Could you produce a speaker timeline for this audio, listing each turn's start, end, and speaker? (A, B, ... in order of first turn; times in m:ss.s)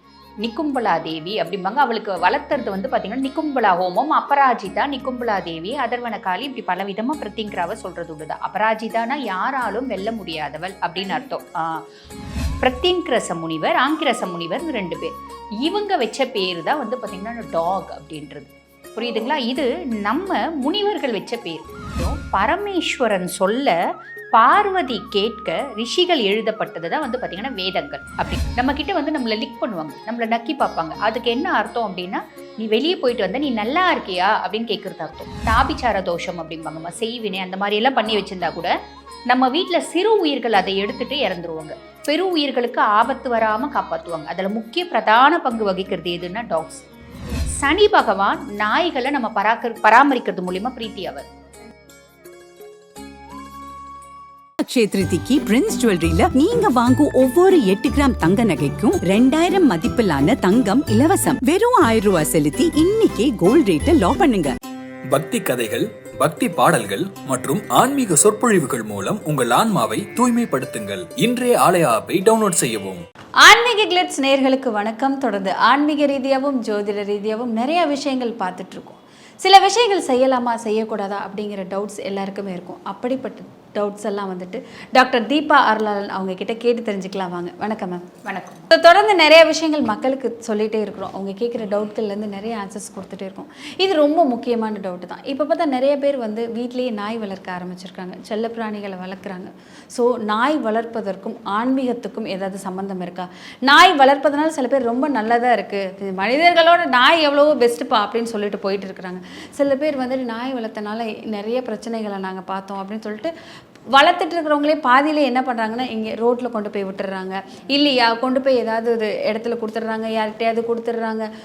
0:00.4-0:11.8 A
0:12.6-0:15.1 A
0:15.6-0:23.7 A
0:24.3-0:38.7 A
0:39.3-0:46.8 A
0:47.6-0:51.2 A
0:54.6-1:04.6 B
1:05.1-1:13.0 C
1:13.4-1:28.0 D
1:28.2-1:28.7 A
1:28.7-1:53.3 D
1:53.9-2:01.3 D